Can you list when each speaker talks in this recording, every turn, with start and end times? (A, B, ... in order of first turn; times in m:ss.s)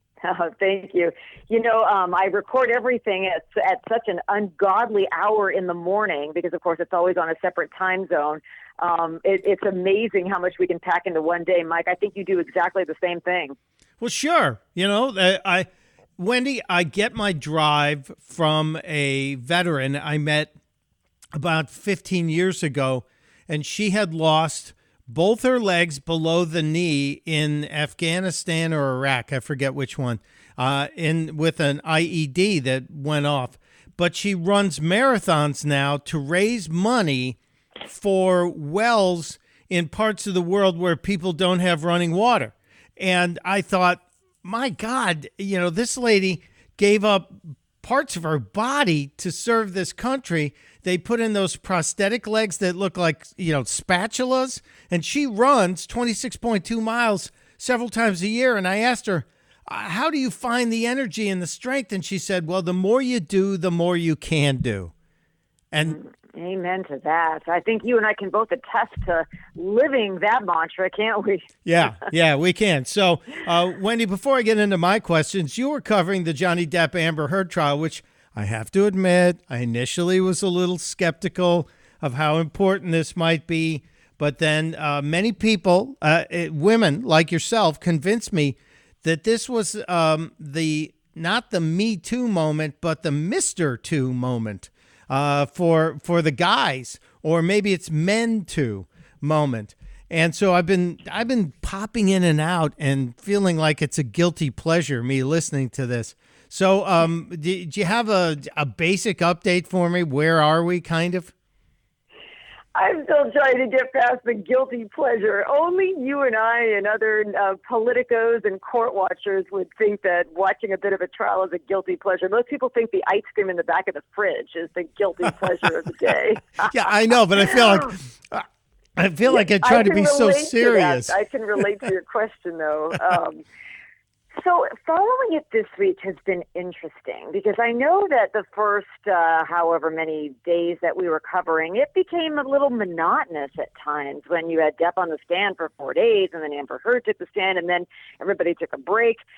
0:00.2-0:13.6 A
0:14.0-0:15.7 B
0:16.2-0:20.5 B
0:21.4-1:04.9 B
1:05.7-1:06.0 B
1:05.8-1:11.5 A
1:11.6-1:51.3 B
1:52.8-2:06.7 A
2:06.6-2:08.5 B
2:07.4-2:07.8 A
2:09.0-2:11.2 B
2:09.2-2:13.4 A
2:14.4-2:29.2 A